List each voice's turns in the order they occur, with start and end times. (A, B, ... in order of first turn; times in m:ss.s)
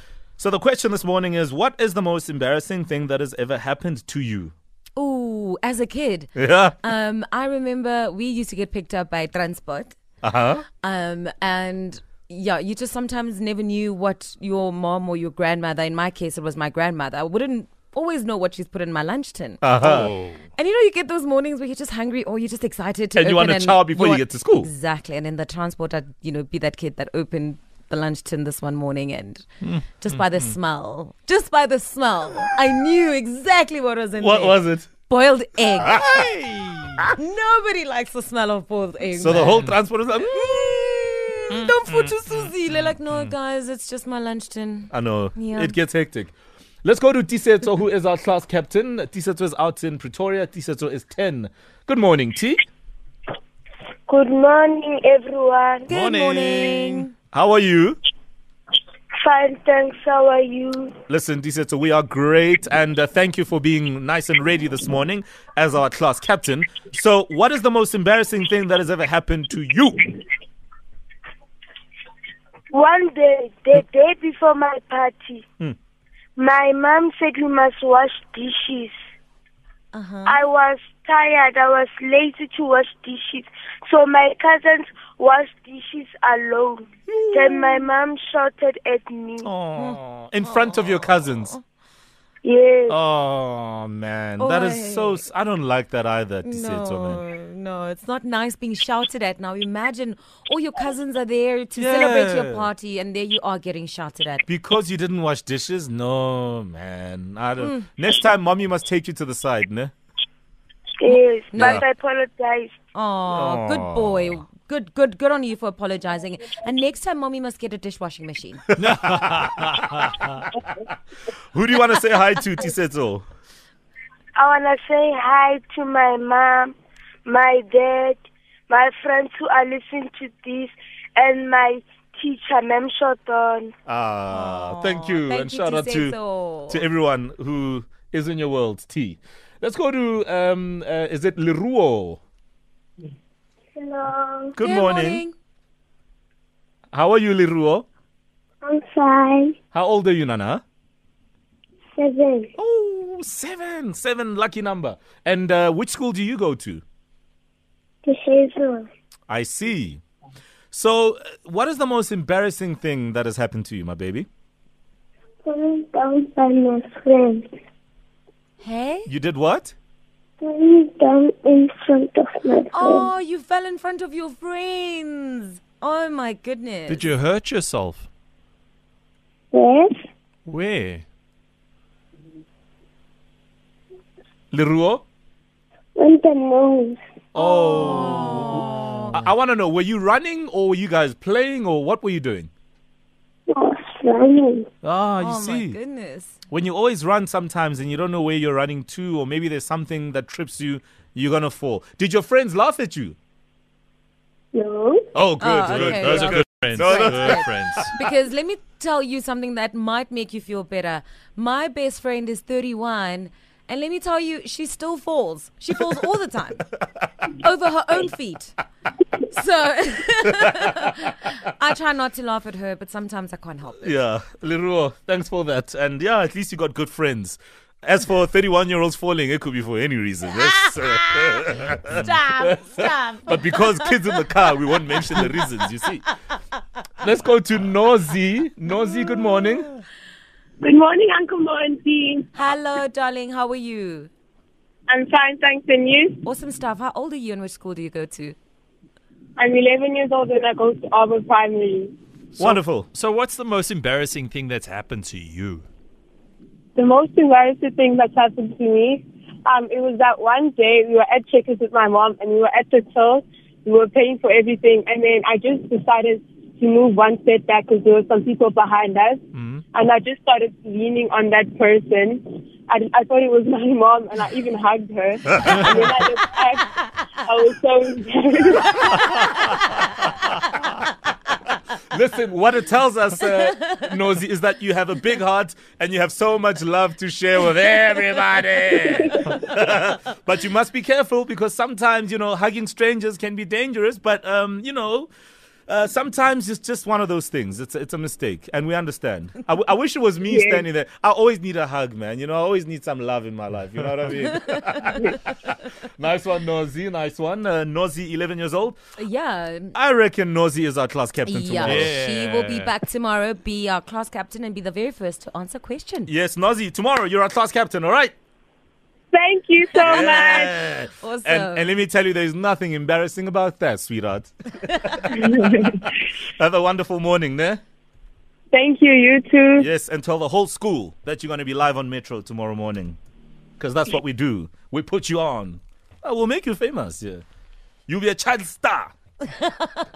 0:00.4-0:04.5 A
0:05.0-0:10.0 B
0:06.4-0:06.8 A
0:10.2-0:10.6 A
0:10.8-0:36.1 B
0:19.6-0:20.1 A
0:19.8-0:20.4 C
0:23.1-0:24.7 A
0:34.2-0:34.9 A
0:35.8-0:36.2 A
0:35.9-0:37.1 C
0:37.2-0:39.7 B
0:39.2-0:41.6 A
0:40.3-0:45.7 B
0:44.9-0:52.6 A
0:54.1-0:55.8 D
0:55.9-0:57.1 B
0:55.9-0:58.0 A
0:56.0-0:56.8 C
0:59.2-1:00.9 D
1:01.1-1:10.0 A
1:12.7-1:15.4 D
1:16.4-1:18.9 D
1:19.9-1:20.4 B
1:20.2-1:29.5 D
1:27.1-1:27.9 A
1:29.4-1:31.6 A
1:29.7-1:31.6 B
1:32.4-1:33.0 D
1:32.9-1:37.2 A
1:34.4-1:35.2 B
1:36.4-1:44.5 B
1:41.8-1:42.7 A
1:44.5-1:49.9 A
1:47.6-1:47.8 B
1:51.0-1:52.7 D
1:51.1-1:51.8 B
1:52.9-1:58.6 B
1:53.3-1:54.4 A
1:58.8-2:00.4 C
1:58.8-1:59.2 A
2:01.5-2:03.2 A
2:04.4-2:06.7 D
2:07.2-2:13.7 D
2:13.9-2:16.2 A
2:14.3-2:16.8 B
2:16.7-2:22.2 A
2:23.8-2:24.5 D
2:24.6-2:25.2 A
2:24.6-2:25.3 B
2:26.9-2:27.8 A
2:28.7-2:29.5 D
2:29.7-2:30.6 A
2:32.0-2:32.4 D
2:32.6-2:36.8 A
2:38.1-2:38.8 D
2:39.3-2:40.0 A
2:40.7-2:44.3 A
2:45.5-2:47.4 D
2:48.6-2:49.1 B
2:49.1-2:49.8 A
2:50.4-2:53.1 D
2:52.7-2:57.1 B
2:56.9-2:58.1 C
2:59.5-2:59.9 D
3:00.5-3:01.1 C
3:04.5-3:05.0 A
3:06.0-3:07.0 D
3:07.3-3:12.5 A
3:07.4-3:09.2 B
3:13.5-3:14.6 D
3:14.8-3:15.8 A
3:15.2-3:16.4 B
3:16.5-3:23.2 A
3:24.5-3:25.0 D
3:25.1-3:27.8 A
3:25.4-3:36.6 B
3:25.6-3:28.0 C
3:37.3-3:38.6 B
3:39.3-3:44.0 B
3:43.8-3:56.0 A
3:50.4-3:54.2 B
3:57.0-3:59.7 A
4:00.6-4:02.3 E
4:02.3-4:04.1 B
4:04.9-4:06.2 E
4:06.2-4:08.4 B
4:09.4-4:11.9 E
4:12.4-4:15.6 C
4:12.4-4:12.9 A
4:16.8-4:39.0 E
4:41.9-4:55.1 A
4:55.7-5:08.8 A
5:00.3-5:00.6 E
5:09.0-5:09.7 B
5:09.7-5:11.9 A
5:11.2-5:16.1 B
5:11.6-5:12.7 C
5:16.1-5:18.1 A
5:19.1-5:20.5 E
5:19.8-5:25.2 A
5:20.9-5:21.7 B
5:25.1-5:25.9 E
5:26.2-5:27.6 A
5:28.5-5:29.7 E
5:29.6-5:33.0 A
5:33.6-5:37.2 A
5:37.9-5:38.9 A